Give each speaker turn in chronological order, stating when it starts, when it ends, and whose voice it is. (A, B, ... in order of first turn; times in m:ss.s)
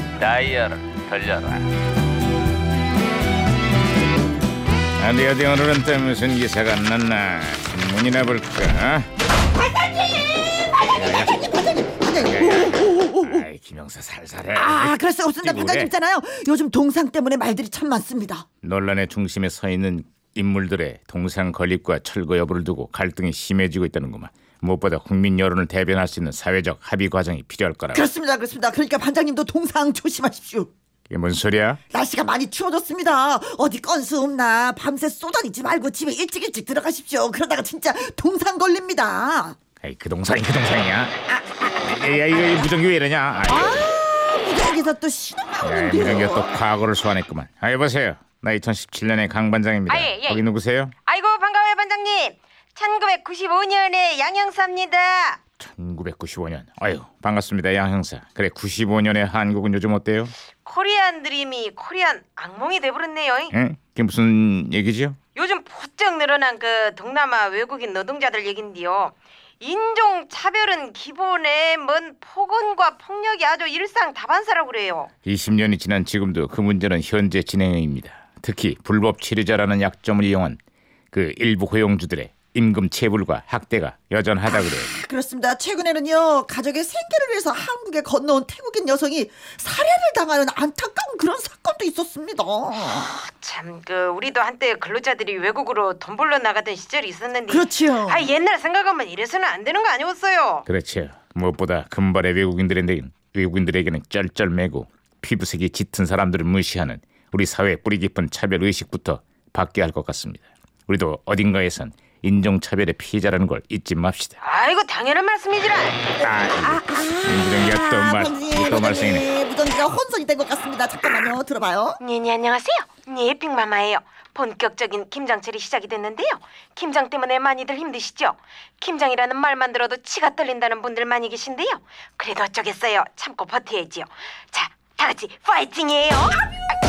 0:00.2-0:01.6 A
0:05.0-0:09.1 A
0:09.6-0:13.4 B
0:10.9-0:11.3 A
0:12.2-0:15.9 A
0:14.5-0:18.4 B
0:18.6-0:28.1 A
0:27.9-0:30.7 B
0:31.1-0:31.8 A
0:31.9-0:39.6 B
0:39.8-0:43.8 A
0:43.5-0:46.4 B
0:45.6-0:50.9 A
0:49.9-0:50.4 C
0:51.0-0:55.4 C
0:55.6-1:00.3 A
1:00.6-1:03.5 C
1:03.5-1:05.2 A
1:05.3-1:15.1 C
1:15.2-1:20.6 A
1:21.1-1:24.9 A
1:24.6-1:33.1 B
1:32.8-1:40.6 C
1:37.5-1:38.2 B
1:40.7-1:54.4 A
1:54.4-1:56.1 C
1:56.2-1:59.2 A
1:56.6-2:02.0 B
2:02.0-2:16.5 C